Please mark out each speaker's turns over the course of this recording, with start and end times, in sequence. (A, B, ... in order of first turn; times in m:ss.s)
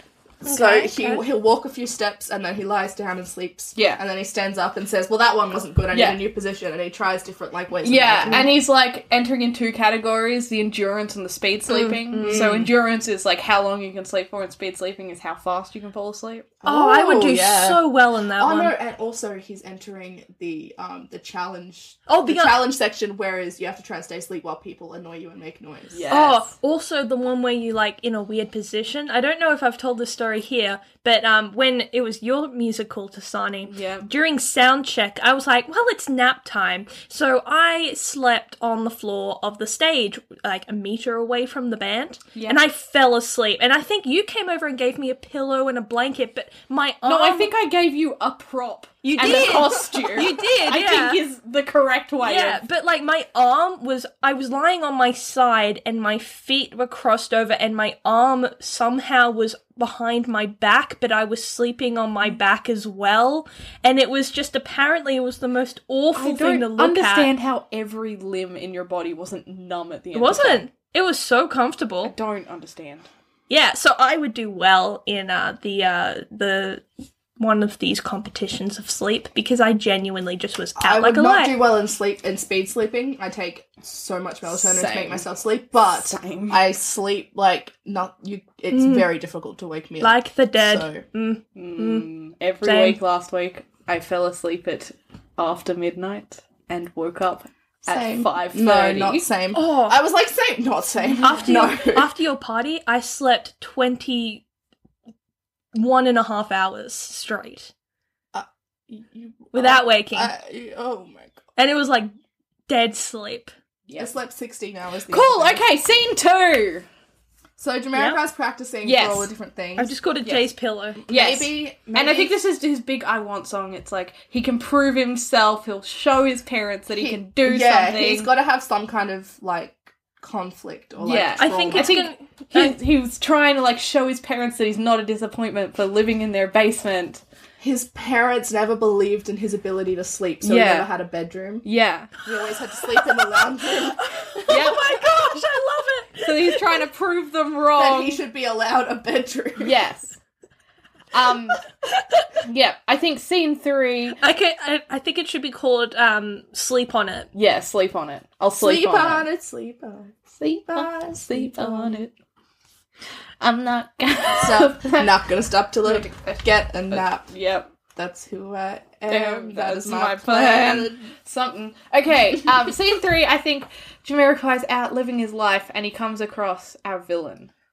0:00.4-0:08.5 A
0:00.4-0:01.2 B
0:03.8-0:04.0 C
0:05.9-0:06.2 C
0:07.8-0:16.5 C
0:11.7-0:12.6 B
0:12.2-0:12.7 A
0:16.6-0:26.1 A
0:16.6-0:18.7 B
0:22.1-0:22.7 B
0:25.9-0:26.5 C
0:26.1-0:47.5 B
0:33.6-0:34.1 C
0:42.3-0:42.6 C
0:47.0-0:52.6 C
0:49.0-0:51.2 B
0:52.2-1:07.3 B
1:06.1-1:10.6 C
1:10.1-1:12.1 B
1:12.0-1:13.1 C
1:13.5-1:16.8 B
1:17.4-1:21.6 B
1:20.8-1:31.0 A
1:24.5-1:25.2 C
1:25.9-1:26.6 C
1:28.7-1:29.1 B
1:30.0-1:32.0 B
1:31.6-1:39.2 C
1:32.6-1:33.0 B
1:37.8-1:42.1 A
1:39.5-1:40.0 B
1:41.2-1:44.4 B
1:41.2-1:41.7 C
1:45.7-1:47.7 B
1:48.3-1:51.4 A
1:49.5-1:50.3 B
1:51.6-1:52.1 B
1:52.7-1:53.5 B
1:53.9-1:54.1 C
1:54.0-1:55.6 A
1:55.1-1:56.8 C
1:57.6-1:59.9 A
1:58.8-1:59.3 C
1:59.8-2:01.0 B
2:00.2-2:00.5 C
2:01.1-2:02.4 A
2:01.1-2:08.3 C
2:07.0-2:12.1 A
2:11.0-2:17.2 C
2:11.4-2:12.8 B
2:17.6-2:21.6 A
2:20.4-2:20.9 C
2:21.6-2:22.2 C
2:22.2-2:24.6 A
2:23.9-2:26.8 B
2:24.5-2:25.1 C
2:26.2-2:28.2 C
2:27.8-2:29.8 A
2:29.6-2:30.2 C
2:31.1-2:31.6 C
2:32.4-2:34.2 C
2:34.2-2:37.3 B
2:37.3-2:39.3 C
2:38.6-2:42.0 A
2:40.4-2:42.1 C
2:43.4-2:45.2 C
2:44.4-2:47.3 A
2:45.8-2:47.7 C
2:47.9-2:51.0 A
2:49.1-2:57.5 C